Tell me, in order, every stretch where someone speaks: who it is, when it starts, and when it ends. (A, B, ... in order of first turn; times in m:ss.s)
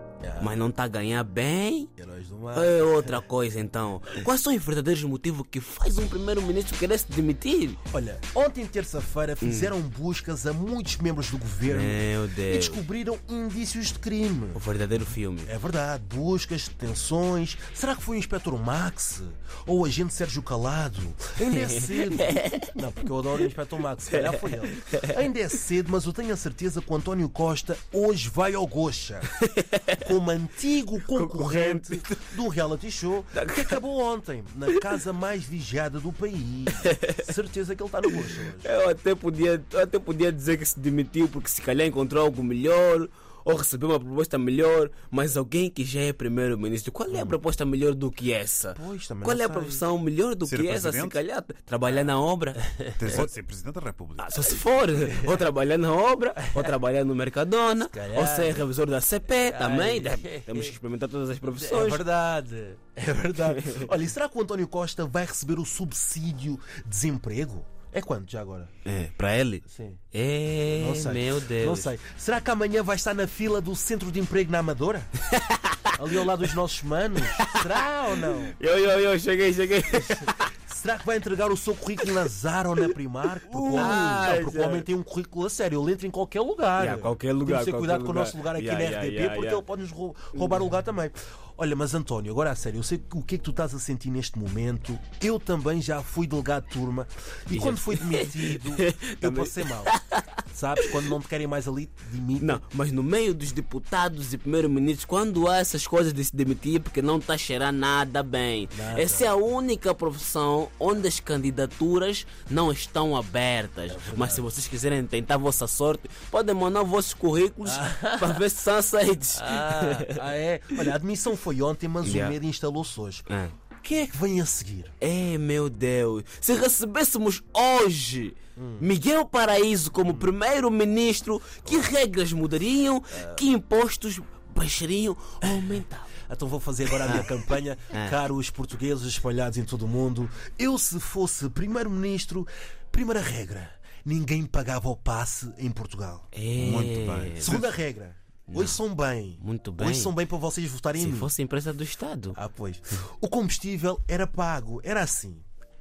0:00.2-0:00.6 A
0:00.4-0:01.9 B
0:02.0-0:03.2 A
0:02.5-0:07.8 B
0:07.9-0:14.6 A
0:09.4-0:09.7 B
0:11.7-0:12.8 B
0:14.5-0:15.5 B
0:15.5-0:29.3 A
0:21.4-0:22.8 B
0:24.1-0:25.1 B
0:29.4-0:30.0 B
0:30.0-0:38.7 A
0:31.1-0:32.2 B
0:33.3-0:33.8 B
0:36.8-0:37.2 B
0:38.1-0:53.3 B
0:47.1-0:47.4 A
0:48.8-0:49.9 A
0:50.5-0:51.2 C
0:52.7-0:53.3 A
0:53.0-0:54.4 C
0:54.2-1:02.0 B
0:55.0-0:55.4 A
0:56.4-0:56.7 A
0:57.8-0:58.7 A
0:59.3-1:00.8 A
1:01.6-1:08.7 A
1:03.4-1:04.0 B
1:08.8-1:11.9 B
1:09.7-1:10.0 A
1:10.7-1:15.1 A
1:15.3-1:15.9 B
1:16.0-1:18.6 A
1:17.3-1:17.8 B
1:18.5-1:20.5 B
1:19.9-1:40.0 A
1:23.5-1:24.9 B
1:26.8-1:29.6 B
1:30.3-1:30.6 B
1:37.5-1:40.2 B
1:40.5-1:42.6 A
1:40.8-1:41.0 B
1:42.4-2:00.2 B
1:48.7-1:49.3 A
1:53.9-1:54.5 A
1:57.6-1:58.4 A
1:59.3-2:03.3 A
2:02.0-2:02.4 B
2:03.3-2:03.5 B
2:03.8-2:04.9 A
2:05.0-2:16.1 B
2:08.6-2:08.9 A
2:10.1-2:10.3 A
2:13.1-2:13.4 A
2:16.3-2:26.3 A
2:17.0-2:17.3 B
2:17.9-2:18.2 B
2:26.3-2:27.6 B
2:26.6-2:27.7 C
2:27.4-2:31.3 A
2:28.5-2:28.8 B
2:29.4-2:30.1 B
2:30.9-2:32.4 B
2:32.4-2:35.4 A